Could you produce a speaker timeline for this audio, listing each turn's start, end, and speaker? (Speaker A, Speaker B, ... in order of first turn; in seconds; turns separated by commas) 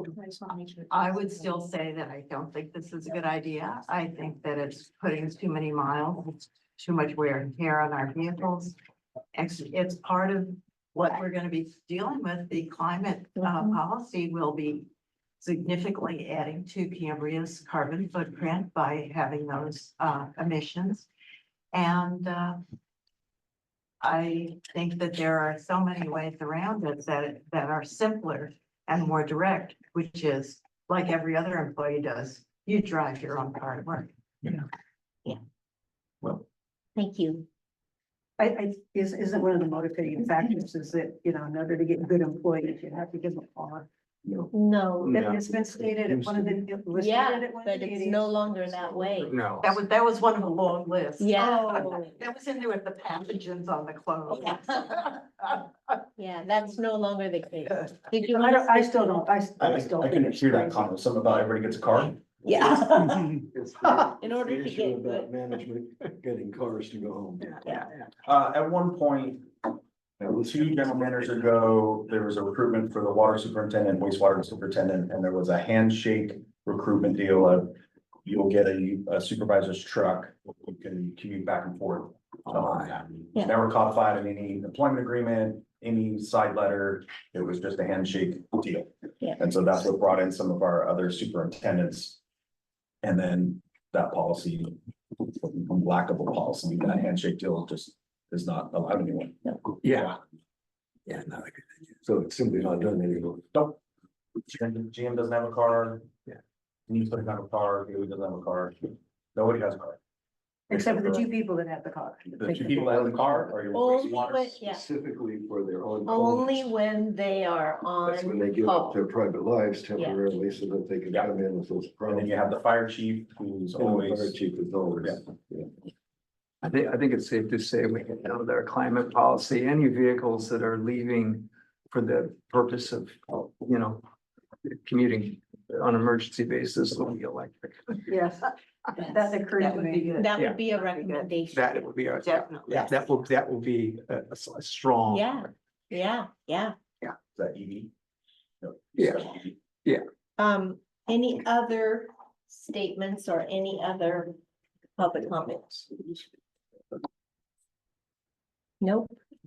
Speaker A: 0.1-1.3, Speaker B: 0.9-8.8, Speaker B: 9.3-14.9, Speaker A: 13.5-13.8, Speaker B: 15.4-21.1, Speaker B: 21.7-22.6, Speaker B: 24.0-34.1, Speaker A: 37.0-37.5, Speaker C: 38.4-43.9, Speaker D: 44.2-44.5, Speaker A: 44.5-45.4, Speaker E: 45.0-45.4, Speaker C: 45.1-48.3, Speaker D: 46.1-46.6, Speaker A: 46.9-49.4, Speaker E: 49.2-49.8, Speaker B: 49.6-55.6, Speaker A: 51.2-52.2, Speaker A: 56.2-59.0, Speaker C: 58.1-60.9, Speaker F: 59.6-62.2, Speaker A: 62.4-63.4, Speaker D: 63.4-67.6, Speaker A: 64.0-65.3, Speaker E: 67.5-68.1, Speaker F: 68.2-69.5, Speaker D: 70.2-71.2, Speaker F: 70.3-92.2, Speaker E: 82.5-82.9, Speaker F: 93.0-100.2, Speaker E: 99.8-100.2, Speaker E: 101.0-101.9, Speaker D: 102.0-103.5, Speaker F: 103.5-103.8, Speaker F: 104.4-106.1, Speaker F: 106.9-110.0, Speaker C: 110.7-113.4, Speaker F: 110.7-111.2, Speaker F: 112.3-114.5, Speaker A: 113.7-114.8, Speaker D: 114.6-116.7, Speaker A: 116.0-119.0, Speaker D: 118.0-122.3, Speaker F: 122.1-124.3, Speaker D: 123.7-125.7, Speaker E: 126.6-134.1, Speaker E: 134.7-138.0, Speaker C: 138.1-140.2, Speaker B: 139.5-141.3, Speaker A: 140.2-141.7, Speaker E: 141.5-145.5, Speaker B: 142.2-143.1, Speaker A: 145.1-146.8, Speaker F: 147.3-147.9, Speaker F: 148.6-149.5, Speaker E: 149.0-150.0, Speaker A: 150.4-154.3, Speaker A: 155.0-156.2, Speaker A: 158.8-159.2